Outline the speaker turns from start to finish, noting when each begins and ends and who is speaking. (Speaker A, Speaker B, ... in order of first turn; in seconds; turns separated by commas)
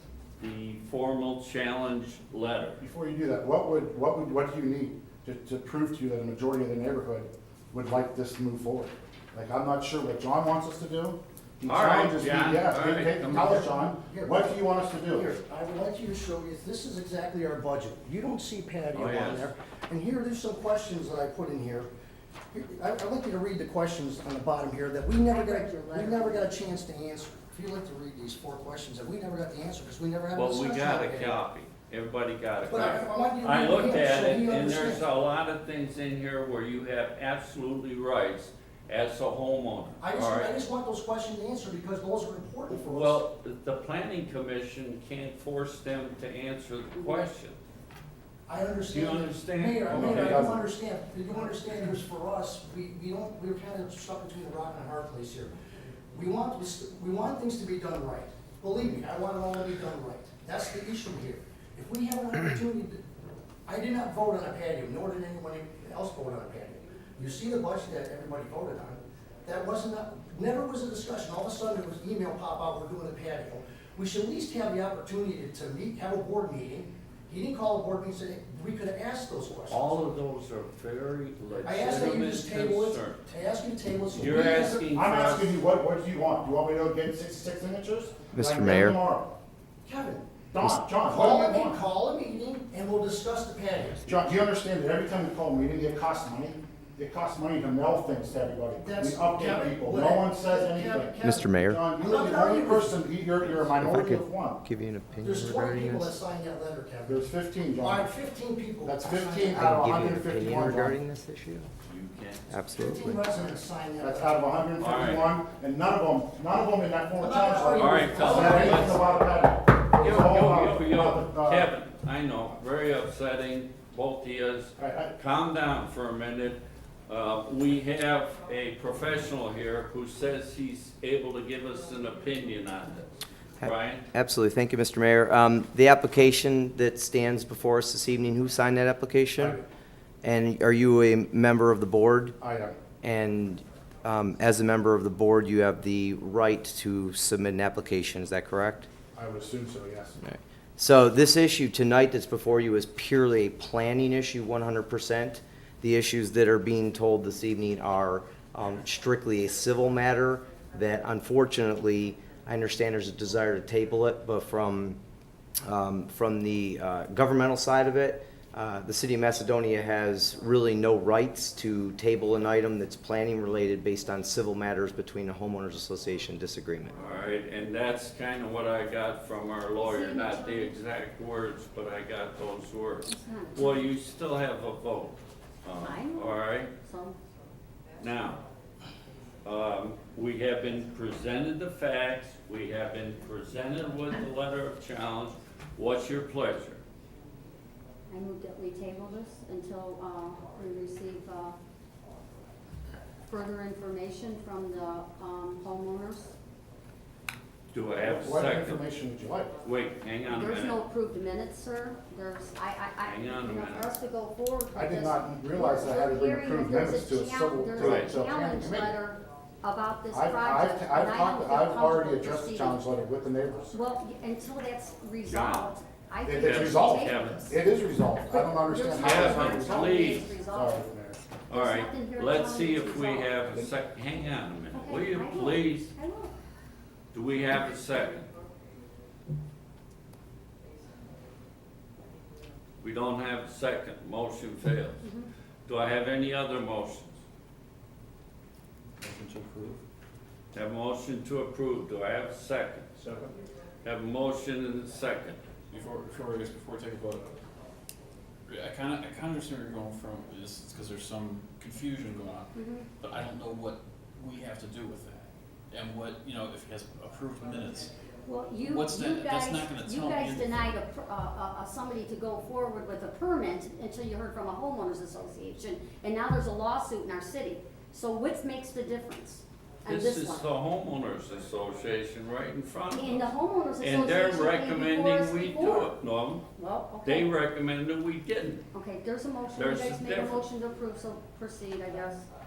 Speaker A: 0.4-2.8, Speaker B: 2.8-15.3, Speaker A: 11.7-13.6, Speaker C: 13.3-21.9, Speaker A: 18.9-19.5, Speaker C: 22.5-31.4, Speaker D: 25.2-26.5, Speaker A: 30.4-40.5, Speaker C: 32.6-35.1, Speaker C: 40.0-43.2, Speaker A: 42.7-47.6, Speaker D: 47.0-47.2, Speaker C: 48.5-55.5, Speaker A: 48.9-50.5, Speaker B: 49.8-50.6, Speaker C: 56.1-63.0, Speaker C: 63.6-79.8, Speaker A: 79.7-83.2, Speaker C: 81.6-84.9, Speaker A: 84.1-85.5, Speaker B: 84.9-89.3, Speaker E: 88.3-89.0, Speaker C: 89.8-94.1, Speaker B: 90.5-91.8, Speaker B: 94.1-104.6, Speaker C: 98.8-104.3, Speaker E: 101.2-101.8, Speaker E: 103.7-106.1, Speaker C: 105.2-107.2, Speaker B: 107.0-108.1, Speaker C: 107.8-109.6, Speaker B: 108.8-111.0, Speaker E: 109.5-111.7, Speaker A: 111.9-112.4, Speaker E: 112.5-113.2, Speaker C: 112.5-114.4, Speaker B: 114.0-121.7, Speaker A: 114.8-115.4, Speaker C: 117.2-119.0, Speaker A: 117.7-119.0, Speaker A: 120.0-134.1, Speaker B: 124.8-125.1, Speaker E: 133.6-139.6, Speaker B: 139.4-139.7, Speaker E: 140.2-142.4, Speaker B: 142.4-142.9, Speaker E: 143.0-148.9, Speaker B: 149.1-150.2, Speaker E: 150.2-165.0, Speaker E: 165.6-176.9, Speaker A: 176.9-186.7, Speaker D: 179.8-180.7, Speaker D: 183.0-183.9, Speaker D: 185.8-187.2, Speaker A: 188.0-188.4, Speaker A: 189.4-196.8, Speaker D: 198.1-201.6, Speaker D: 203.3-206.3, Speaker A: 207.7-208.8, Speaker B: 208.0-209.6, Speaker A: 209.6-210.8, Speaker D: 210.3-222.8, Speaker A: 213.0-213.9, Speaker B: 214.7-219.0, Speaker A: 217.8-218.1, Speaker B: 220.1-223.8, Speaker D: 223.7-227.6, Speaker A: 225.2-225.7, Speaker B: 226.2-231.3, Speaker A: 226.3-227.5, Speaker D: 228.2-230.9, Speaker A: 229.0-230.3, Speaker A: 231.5-235.9, Speaker D: 231.5-233.4, Speaker D: 234.7-236.3, Speaker A: 237.1-238.2, Speaker A: 242.8-245.1, Speaker D: 245.0-245.3, Speaker A: 245.7-247.2, Speaker F: 249.0-249.8, Speaker A: 250.5-252.9, Speaker A: 253.8-255.4, Speaker F: 255.7-257.3, Speaker F: 258.5-267.9, Speaker D: 262.5-262.9, Speaker D: 268.2-280.5, Speaker F: 268.6-270.8, Speaker A: 279.9-286.5, Speaker D: 282.9-285.9, Speaker D: 286.6-287.3, Speaker A: 287.0-288.6, Speaker D: 288.7-292.3, Speaker A: 289.5-290.4